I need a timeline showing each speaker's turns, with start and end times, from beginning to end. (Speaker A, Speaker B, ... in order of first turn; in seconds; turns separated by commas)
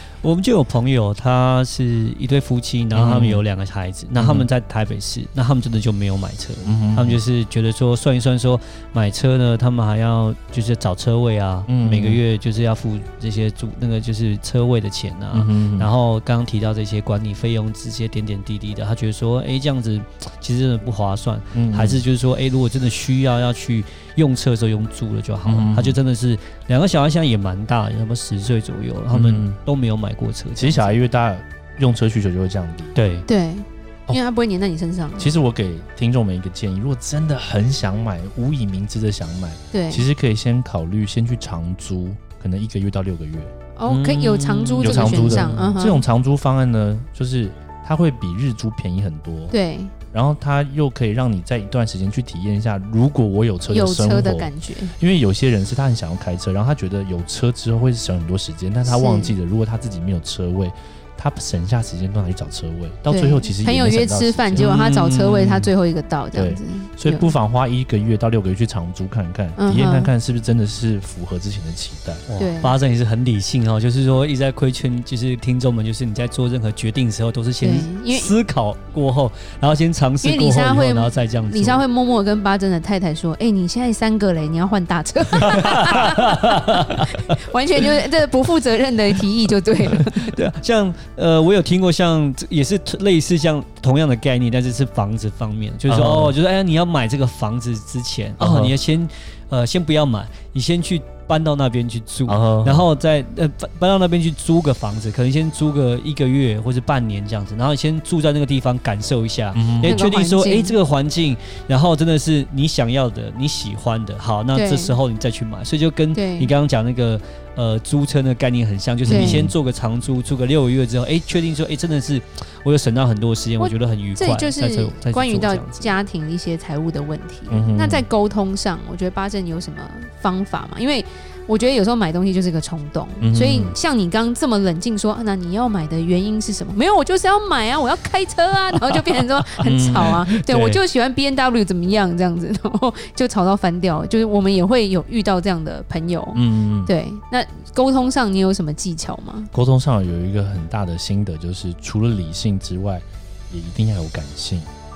Speaker A: 0.2-30.9, Speaker B: 2.9-3.4, Speaker B: 4.2-4.5, Speaker B: 6.6-7.2, Speaker B: 11.7-12.2, Speaker B: 15.3-15.9, Speaker B: 21.5-22.0, Speaker B: 25.4-26.0, Speaker B: 29.1-29.6, Speaker B: 30.6-32.9, Speaker A: 32.9-33.3, Speaker C: 33.3-35.3, Speaker B: 35.2-43.5, Speaker C: 39.7-40.1, Speaker C: 43.8-46.0, Speaker A: 43.9-45.7, Speaker B: 44.8-49.5, Speaker C: 49.5-49.9, Speaker B: 50.1-64.8, Speaker C: 53.7-54.9, Speaker C: 58.9-59.4, Speaker C: 63.1-67.3, Speaker A: 64.5-65.7, Speaker B: 66.3-72.2, Speaker C: 69.6-70.1, Speaker A: 72.3-81.8, Speaker C: 72.4-72.8, Speaker C: 77.6-78.3, Speaker C: 80.2-90.4, Speaker A: 85.4-87.0, Speaker A: 90.2-125.9, Speaker B: 95.9-96.3, Speaker B: 98.4-98.7, Speaker B: 102.2-102.9, Speaker B: 109.5-110.0, Speaker C: 109.8-110.8, Speaker C: 114.5-115.0, Speaker C: 116.1-116.5, Speaker B: 119.0-119.5, Speaker C: 119.1-119.4, Speaker C: 123.6-149.5, Speaker B: 127.5-128.0, Speaker B: 133.2-133.7, Speaker A: 138.8-140.8, Speaker B: 139.6-140.2, Speaker B: 146.3-146.9, Speaker B: 149.5-154.7